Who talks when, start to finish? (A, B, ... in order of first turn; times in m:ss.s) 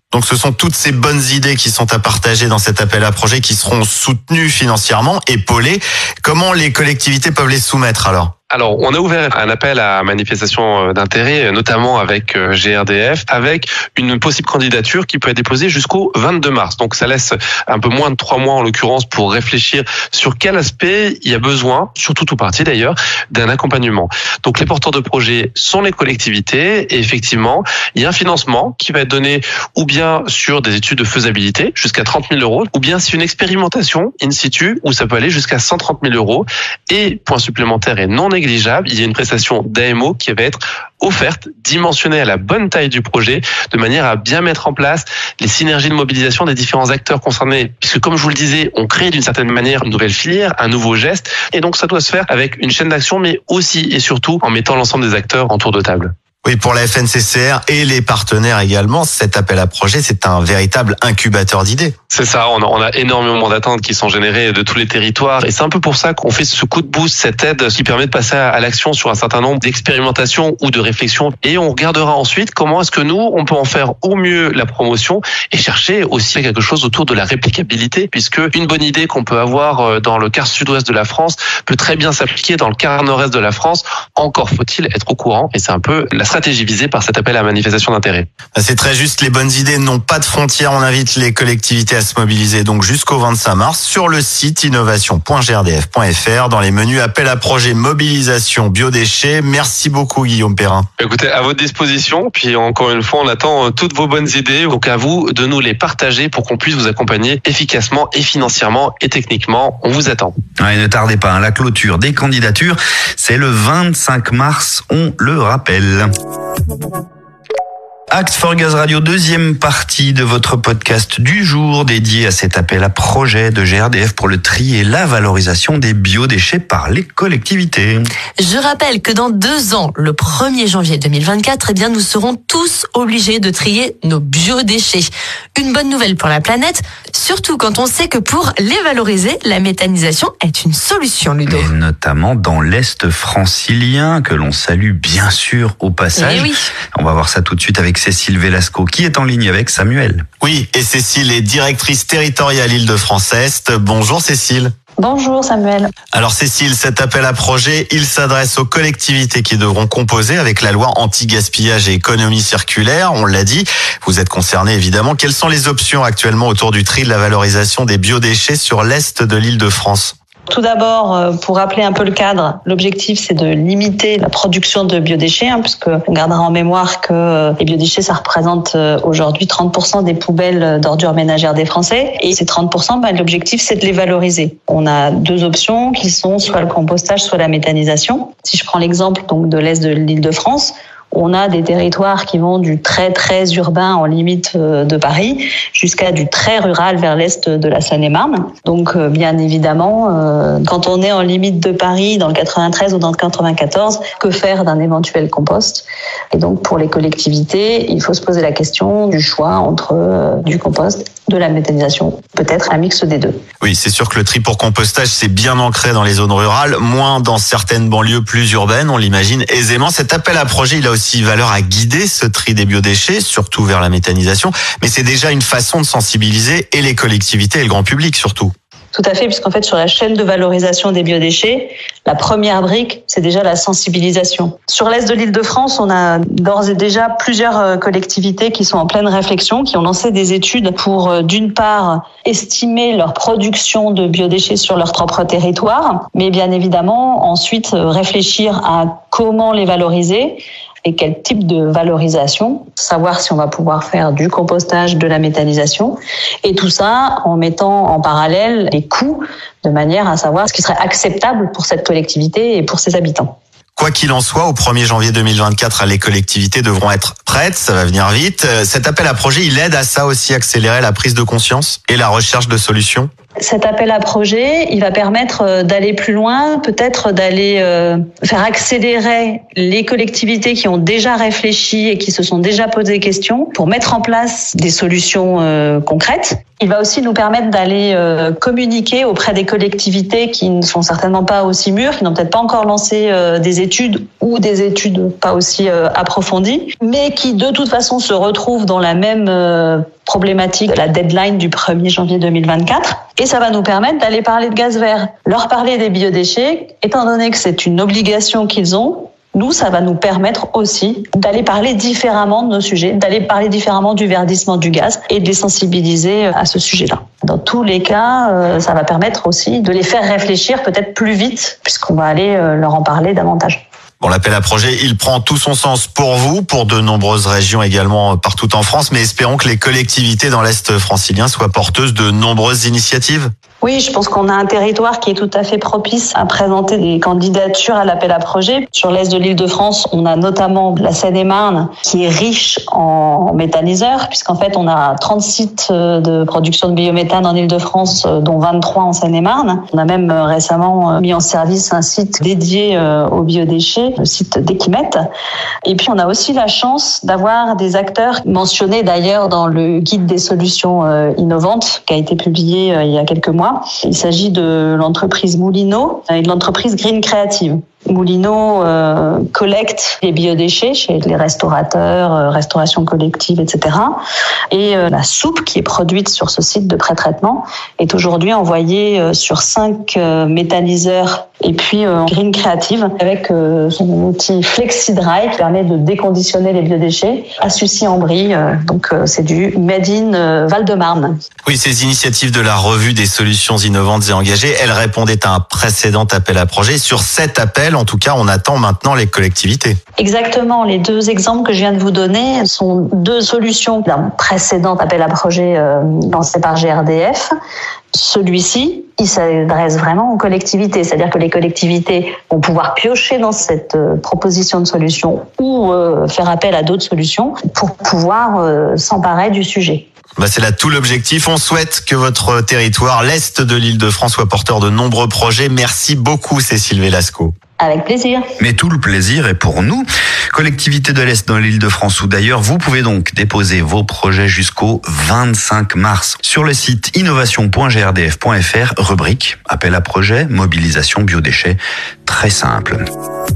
0:00.1-0:08.3 A
0:08.5-0:56.1 B
0:56.4-1:01.9 A
1:02.1-1:28.3 B
1:28.5-1:40.9 A
1:41.0-1:50.4 B
1:50.6-1:56.1 C
1:58.1-2:08.0 C
2:08.4-2:21.7 D
2:21.4-2:30.2 C
2:26.1-2:26.7 D
2:30.4-2:34.7 A
2:35.0-2:35.9 E
2:36.1-2:50.2 A
2:50.5-3:33.4 E
3:33.6-3:48.5 A
3:48.9-4:23.3 E
4:23.8-4:33.1 A
4:33.4-5:23.6 E
5:24.0-5:33.3 A
5:33.6-5:55.0 E
5:55.6-6:14.0 E
6:14.5-6:31.2 E
6:31.4-6:39.8 A
6:40.0-6:47.3 E
6:47.9-6:59.9 E
7:00.2-7:07.3 A
7:07.6-7:08.2 E
7:08.4-7:22.8 C